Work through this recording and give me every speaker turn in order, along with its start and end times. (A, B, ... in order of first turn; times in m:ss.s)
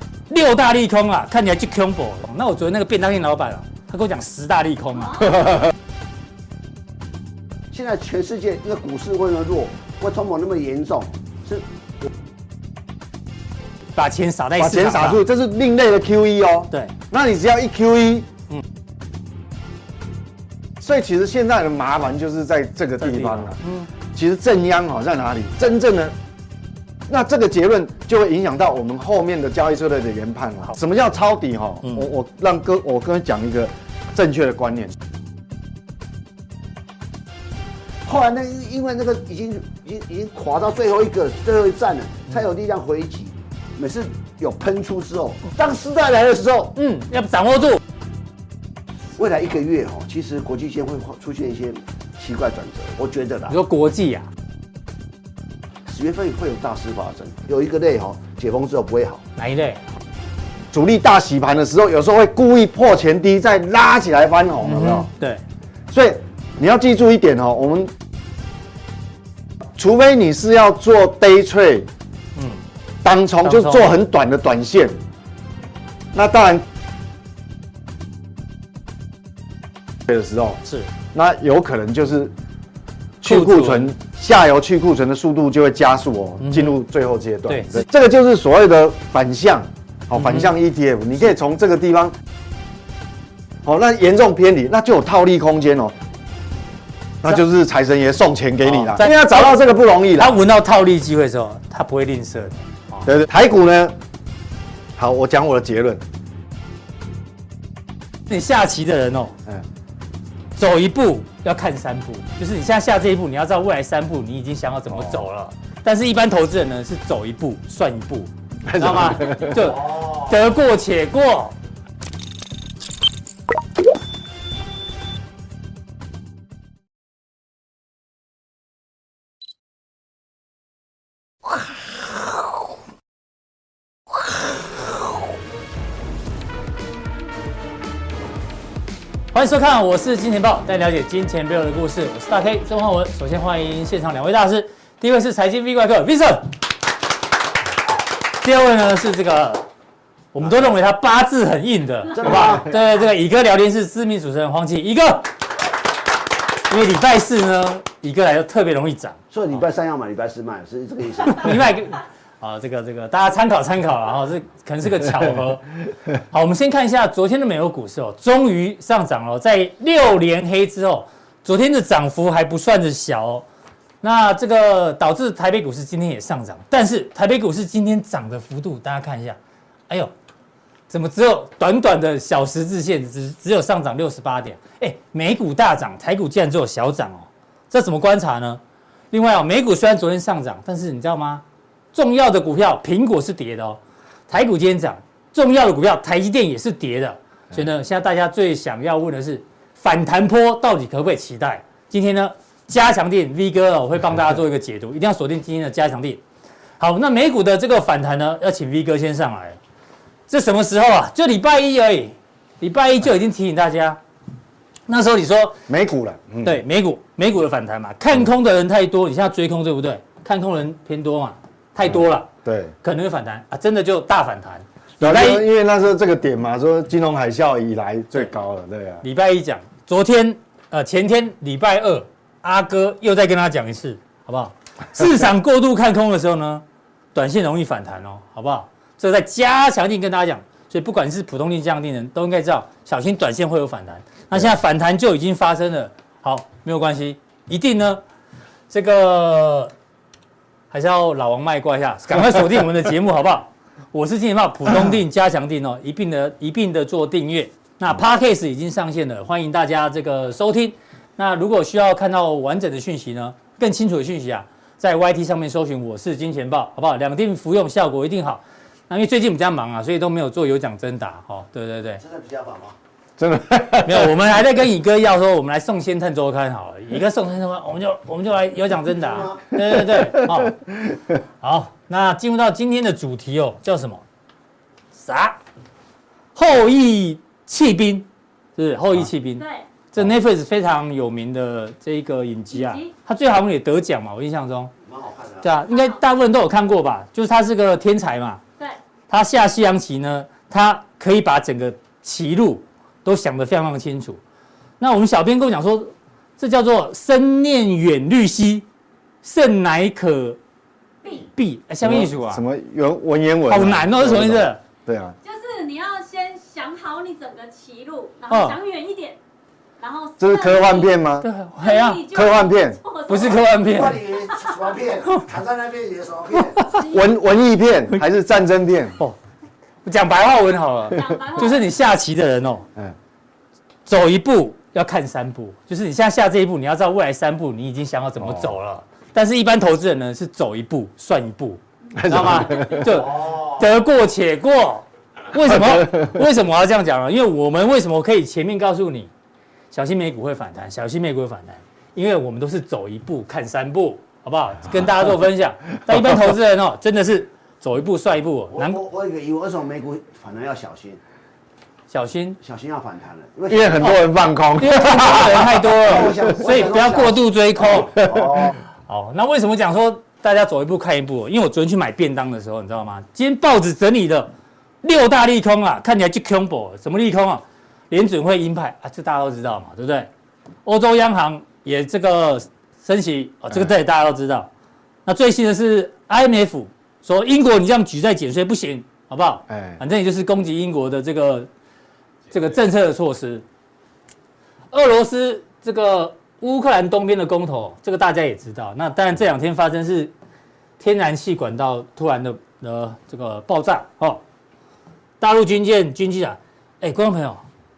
0:00.3-0:05.5 A
0:05.0-0:05.3 B
0:07.7-0:11.6 C
0:14.0-0:15.2 A
0:14.6-0:18.3 D
0:20.8-0:23.6 D
0:23.0-0:23.9 A
0:24.1-0:26.2 D
0:27.1-0:35.0 D
0:38.0-0:46.7 C
0:46.8-0:47.8 A
0:49.2-0:53.6 C
0:53.5-0:54.3 A
0:55.9-0:59.2 C
0:59.4-0:59.8 A
1:00.7-1:05.1 D
1:04.6-1:05.4 A
1:05.9-1:07.9 D
1:09.8-1:11.9 D
1:12.4-1:12.6 A
1:13.0-1:15.0 D
1:13.4-1:13.9 A
1:16.1-1:16.7 D
1:20.1-1:22.3 D
1:20.6-1:20.9 A
1:23.2-1:32.2 D
1:23.2-1:23.9 A
1:26.4-1:26.8 A
1:27.5-1:27.8 A
1:30.2-1:30.5 A
1:33.6-1:36.0 D
1:37.2-1:40.4 D
1:38.6-1:39.5 A
1:40.2-1:43.1 A
1:43.1-1:44.0 D
1:45.0-1:46.0 D
1:48.3-1:49.3 A
1:50.6-2:01.6 A
1:54.9-1:55.2 D
1:58.7-1:59.8 D
2:19.3-2:26.5 A
2:28.4-2:29.7 A
2:30.3-2:35.3 A
2:32.1-2:32.7 C
2:36.7-2:39.2 A
2:39.3-2:41.6 C
2:41.2-2:53.5 A
2:54.0-2:59.4 A
3:00.9-3:08.6 A
3:09.1-3:26.2 A
3:26.8-3:29.6 A
3:30.3-3:34.0 A
3:34.9-3:35.6 A
3:35.7-3:36.6 D
3:36.4-3:42.3 A
3:42.4-3:42.7 D
3:42.8-3:45.4 A
3:45.0-3:49.0 D
3:49.0-4:08.0 A
4:08.7-4:09.7 A
4:10.7-4:32.0 A
4:32.0-4:32.8 C
4:33.2-4:34.1 D
4:33.8-4:40.6 A
4:39.0-4:39.4 C
4:39.9-4:40.4 D
4:41.4-4:44.0 A
4:45.0-4:45.4 A
4:46.4-4:48.1 A
4:48.6-4:54.7 A
4:49.4-4:49.7 B
4:52.5-4:52.9 B
4:54.8-4:55.5 C
4:55.4-4:58.4 A
4:55.7-4:56.0 B
4:59.1-5:04.2 A
5:04.8-5:08.6 A
5:09.2-5:10.4 A
5:11.3-5:12.4 A
5:11.8-5:15.2 D
5:13.5-5:14.6 A
5:15.2-5:19.2 B
5:18.3-5:18.6 A
5:19.8-5:21.0 B
5:20.2-5:21.3 D
5:21.2-5:22.0 A
5:21.6-5:23.4 B
5:22.1-5:22.8 D
5:23.1-5:24.1 A
5:23.6-5:26.6 C
5:24.1-5:24.5 B
5:26.7-5:27.1 B
5:26.9-5:29.0 D
5:29.8-5:32.7 A
5:30.9-5:31.7 B
5:33.9-5:49.1 A
5:38.2-5:38.5 D
5:42.0-5:43.1 D
5:42.3-5:43.0 B
5:45.5-5:46.0 D
5:49.7-5:58.8 A
5:58.5-6:01.0 C
6:01.9-6:02.4 A
6:02.4-6:04.0 C
6:03.5-6:06.4 D
6:04.6-6:07.9 A
6:05.1-6:08.6 C
6:08.0-6:08.4 D
6:08.8-6:14.3 A
6:14.8-6:20.1 A
6:20.6-6:24.5 A
6:25.1-6:31.5 A
6:29.5-6:29.8 D
6:32.3-6:33.4 A
6:34.7-6:40.1 A
6:40.8-6:44.2 A
6:45.2-6:47.4 A